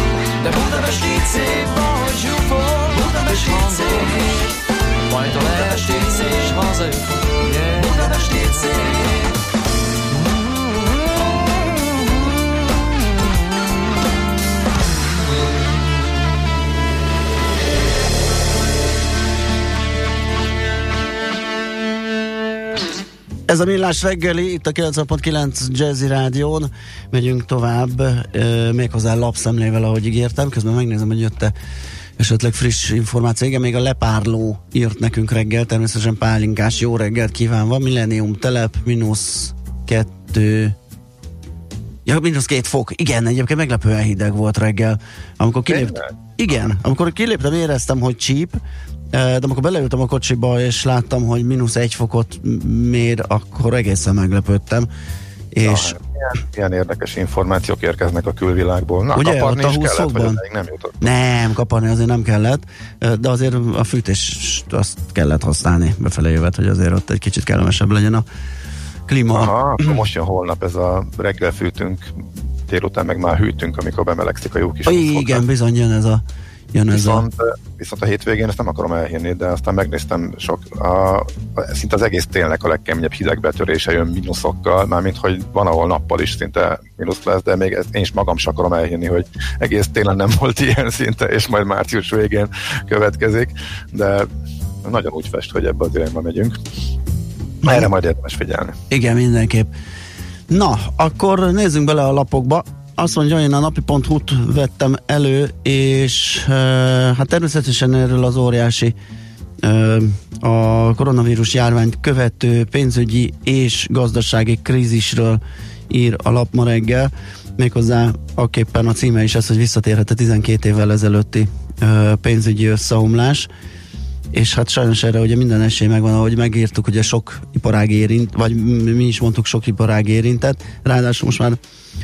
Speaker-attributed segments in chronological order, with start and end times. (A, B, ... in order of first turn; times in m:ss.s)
0:00.4-0:09.3 A
0:23.5-0:31.5 B
0:32.2-0:40.8 B
0:42.1-0:48.6 B
0:45.7-0:46.1 C
0:49.1-0:54.9 B
0:55.5-0:56.0 B
0:55.6-1:01.1 C
0:59.1-1:00.4 B
1:01.0-1:08.2 B
1:09.1-1:10.0 B
1:09.3-1:12.1 C
1:12.7-1:15.4 C
1:14.9-1:17.2 B
1:16.9-1:34.3 C
1:34.8-1:36.5 C
1:37.6-1:38.8 C
1:38.9-1:39.7 B
1:40.5-1:49.0 B
1:49.6-2:03.5 B
2:04.3-2:11.6 B